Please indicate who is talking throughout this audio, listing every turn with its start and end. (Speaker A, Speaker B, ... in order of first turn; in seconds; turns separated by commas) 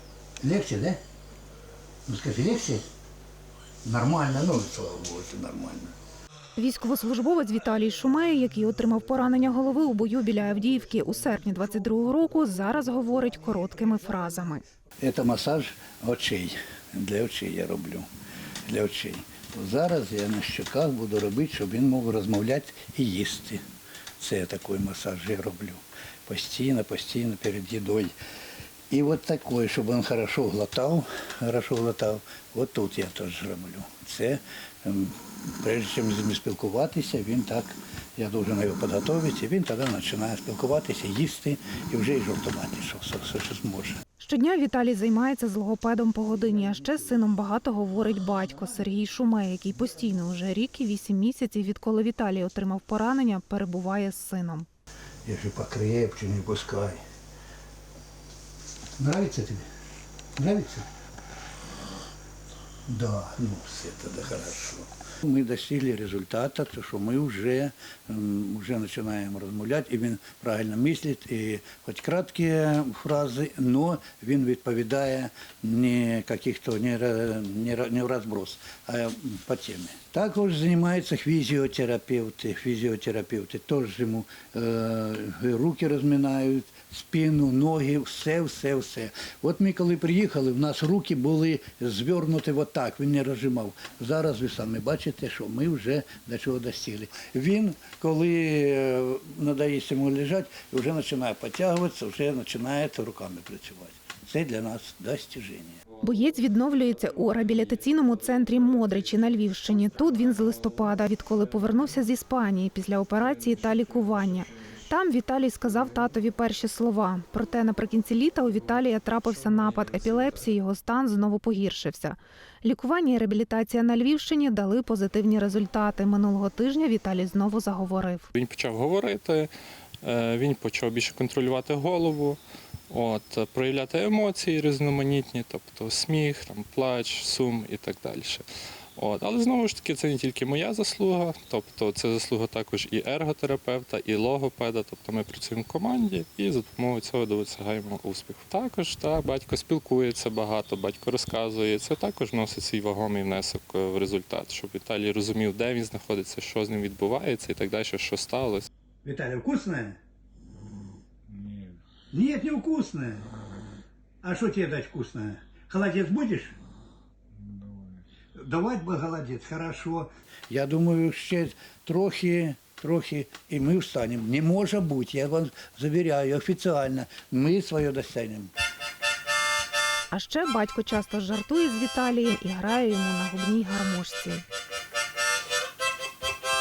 Speaker A: 0.4-1.0, Speaker A: 2.1-2.9, Speaker A: 3.8-5.9, Speaker B: 6.6-14.6, Speaker A: 15.0-18.1, Speaker A: 18.6-23.6, Speaker A: 24.2-28.1, Speaker A: 28.9-44.0, Speaker B: 44.2-54.7, Speaker A: 55.3-57.0, Speaker A: 59.0-59.7, Speaker A: 60.4-60.9, Speaker A: 62.9-105.8, Speaker C: 105.9-112.0, Speaker B: 106.0-128.3, Speaker C: 113.2-114.9, Speaker C: 115.6-116.2, Speaker C: 118.5-120.5, Speaker C: 128.3-129.5, Speaker C: 130.0-138.4, Speaker C: 139.0-158.7, Speaker A: 159.0-160.0, Speaker A: 162.1-163.3, Speaker A: 164.2-166.6, Speaker A: 168.4-178.5, Speaker B: 180.1-184.4